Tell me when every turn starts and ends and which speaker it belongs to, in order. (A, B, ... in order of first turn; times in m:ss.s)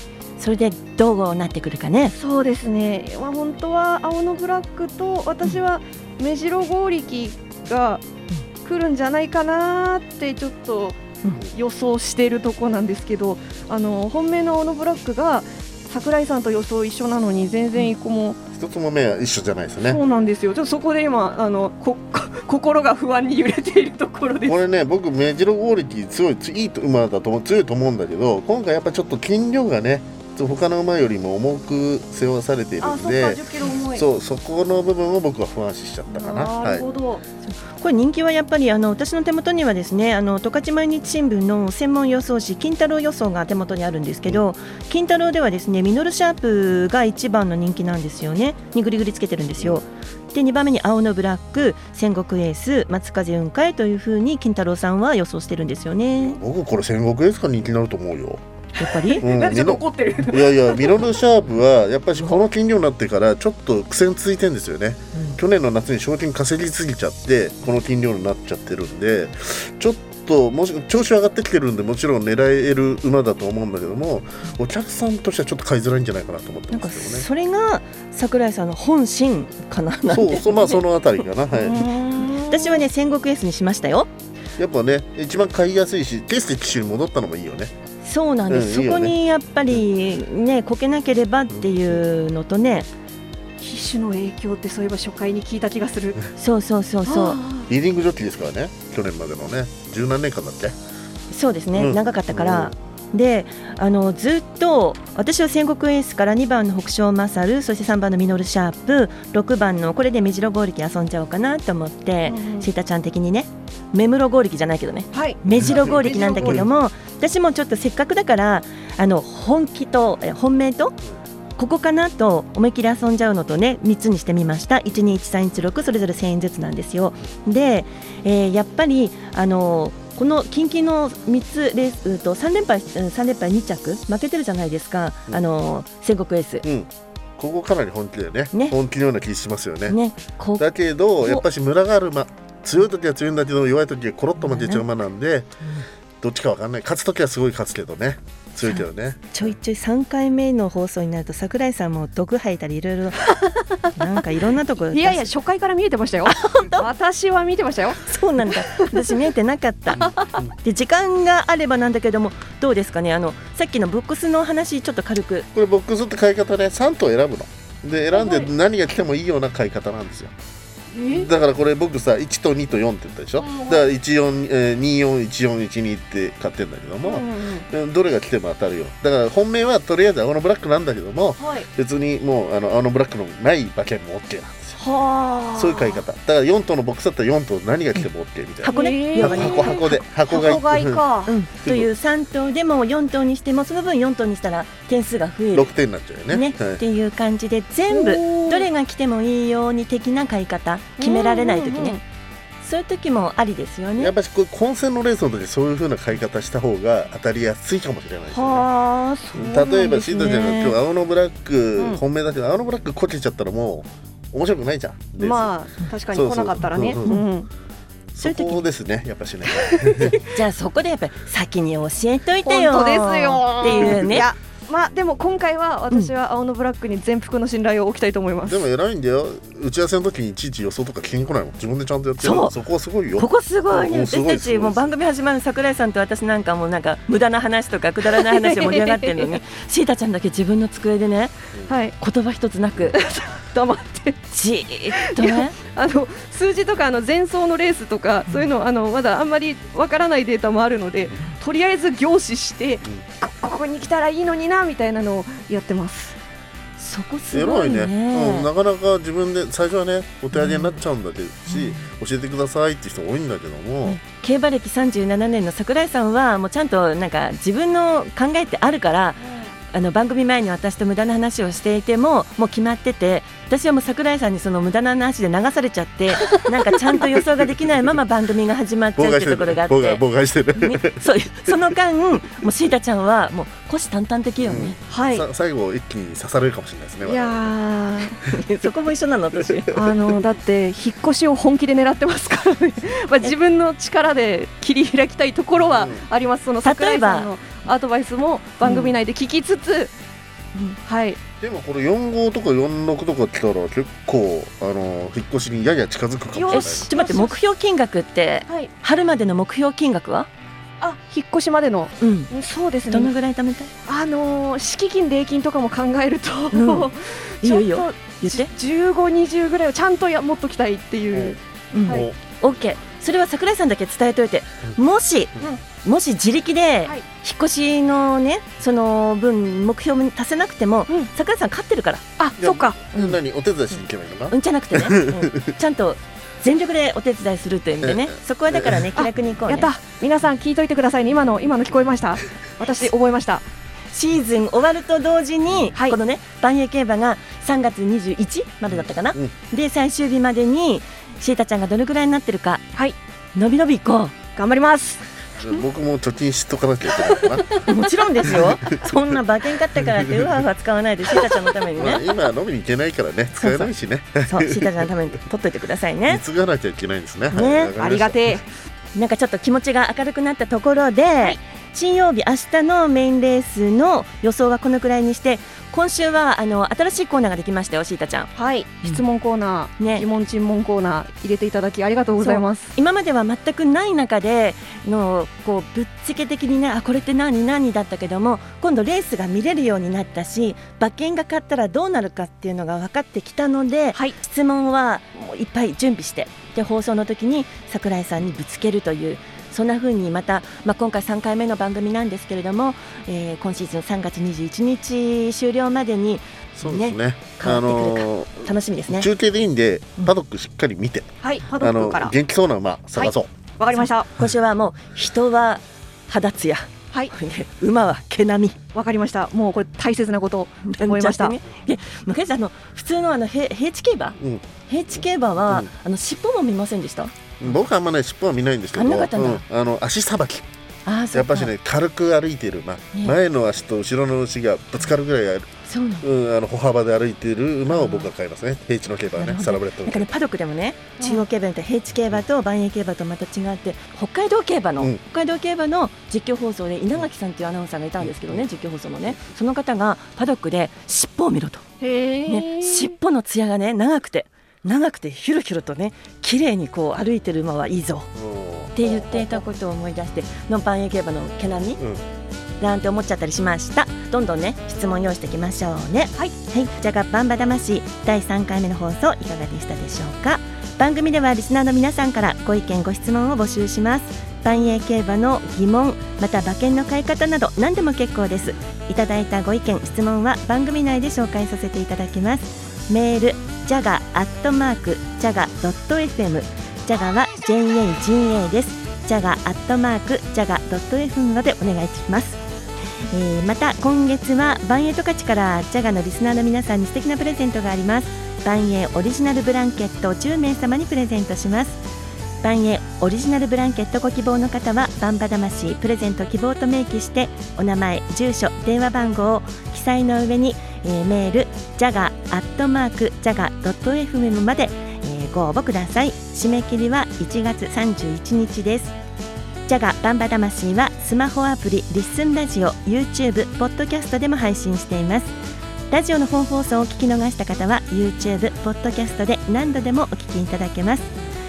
0:00.4-0:02.1 A
0:02.1-0:08.0 B
0:08.6-0:18.4 B
0:18.5-0:20.0 C
0:19.9-0:24.6 B
0:24.4-0:33.4 C
0:32.8-0:34.0 B
0:33.9-0:36.8 C
0:36.1-0:37.2 B
0:37.5-0:56.4 A
0:49.6-0:49.8 C
0:56.2-0:58.4 C
0:58.8-0:59.2 A
0:58.8-1:00.9 B
0:59.2-1:17.3 C
1:16.7-1:20.8 A
1:20.1-1:21.8 C
1:21.6-1:22.8 B
1:22.4-1:24.1 A
1:24.6-1:27.7 C
1:28.0-1:32.9 A
1:28.5-1:29.2 C
1:31.5-1:32.0 C
1:33.6-1:36.2 B
1:36.4-1:37.4 A
1:37.0-1:37.7 B
1:37.7-1:40.8 C
1:41.3-2:01.0 A
1:41.7-1:42.7 C
1:52.3-1:52.7 B
1:55.1-1:56.7 B
1:55.6-1:56.6 C
2:01.6-2:16.6 A
2:16.6-2:20.0 C
2:19.9-2:20.6 A
2:20.6-2:25.5 C
2:24.4-2:24.8 A
2:26.2-2:29.5 C
2:28.6-2:33.3 A
2:33.9-2:35.2 A
2:34.9-2:38.0 B
2:36.2-2:36.9 A
2:38.0-2:40.0 A
2:38.6-2:38.8 B
2:39.9-2:40.5 C
2:40.0-2:40.4 B
2:40.6-2:45.5 A
2:45.5-2:50.3 C
2:48.1-2:48.5 B
2:50.9-2:51.3 B
2:51.1-3:04.8 C
2:53.4-2:53.9 B
2:57.0-2:57.6 B
3:01.4-3:01.7 B
3:04.8-3:06.0 B
3:05.5-3:11.0 C
3:08.6-3:11.3 B
3:08.6-3:10.0 A
3:11.3-3:15.7 A
3:11.6-3:11.9 C
3:15.5-3:16.8 C
3:16.3-3:22.0 A
3:17.9-3:18.7 B
3:21.0-3:22.0 B
3:22.6-3:24.1 A
3:24.0-3:28.7 C
3:28.3-3:30.5 B
3:29.3-3:35.5 C
3:30.1-3:30.7 A
3:35.2-3:37.5 B
3:36.1-3:37.2 C
3:38.1-3:40.2 C
3:38.2-3:38.6 A
3:39.6-3:40.2 B
3:40.3-3:44.3 A
3:42.4-3:48.6 B
3:43.6-3:44.3 C
3:48.4-3:54.9 C
3:52.2-3:52.5 A
3:53.2-4:01.3 A
3:58.2-3:59.3 B
4:01.7-4:01.9 B
4:02.0-4:03.0 A
4:02.9-4:04.1 B
4:04.0-4:05.6 A
4:05.2-4:16.2 B
4:16.8-4:18.5 A
4:17.3-4:24.0 C
4:20.3-4:20.7 A
4:23.8-4:29.2 A
4:29.7-4:40.0 A
4:39.0-4:41.0 C
4:40.6-4:44.8 A
4:44.4-4:47.5 C
4:44.9-4:45.2 B
4:47.0-4:48.1 B
4:48.3-4:49.7 A
4:49.4-4:50.1 C
4:49.7-4:59.9 B
4:55.6-4:56.0 C
4:56.6-4:57.3 A
4:58.6-4:59.0 A
5:00.8-5:01.2 B
5:01.4-5:06.9 C
5:06.3-5:07.4 B
5:06.5-5:10.3 A
5:10.8-5:13.1 B
5:12.0-5:12.3 A
5:12.9-5:13.7 A
5:13.9-5:22.1 B
5:16.5-5:18.5 A
5:21.1-5:22.2 C
5:21.7-5:32.0 A
5:32.2-5:33.2 B
5:32.4-5:35.5 C
5:34.3-5:39.7 A
5:37.8-5:38.8 C
5:38.9-5:43.4 B
5:43.9-5:52.6 A
5:48.7-5:49.3 C
5:53.4-5:54.1 A
5:54.4-5:55.0 B
5:55.4-5:57.6 C
5:57.6-6:02.0 A
5:58.2-5:59.1 C
5:59.8-6:00.3 C
6:01.8-6:04.7 C
6:03.4-6:03.7 A
6:04.2-6:06.2 A
6:06.0-6:08.4 C
6:07.3-6:07.7 A
6:07.8-6:08.4 B
6:08.9-6:18.3 A
6:18.4-6:22.7 B
6:19.8-6:20.1 A
6:22.2-6:49.1 A
6:46.6-6:53.3 C
6:51.2-6:52.1 B
6:53.0-6:54.1 B
6:53.7-6:58.6 A
6:58.7-7:01.4 B
7:00.6-7:04.2 A
7:04.2-7:04.4 C
7:04.7-7:07.1 A
7:07.4-7:10.5 C
7:08.7-7:09.4 A
7:10.8-7:11.5 A
7:11.1-7:20.1 C
7:15.7-7:16.0 A
7:17.7-7:18.1 A
7:19.2-7:31.6 A
7:28.0-7:28.5 C
7:31.8-7:32.9 B
7:32.3-7:38.1 A
7:38.1-7:39.4 C
7:38.7-7:41.8 A
7:41.8-7:42.0 C
7:42.6-8:12.4 A
8:13.1-8:21.8 A
8:22.4-8:38.9 A
8:39.7-8:45.3 A
8:45.9-8:51.1 A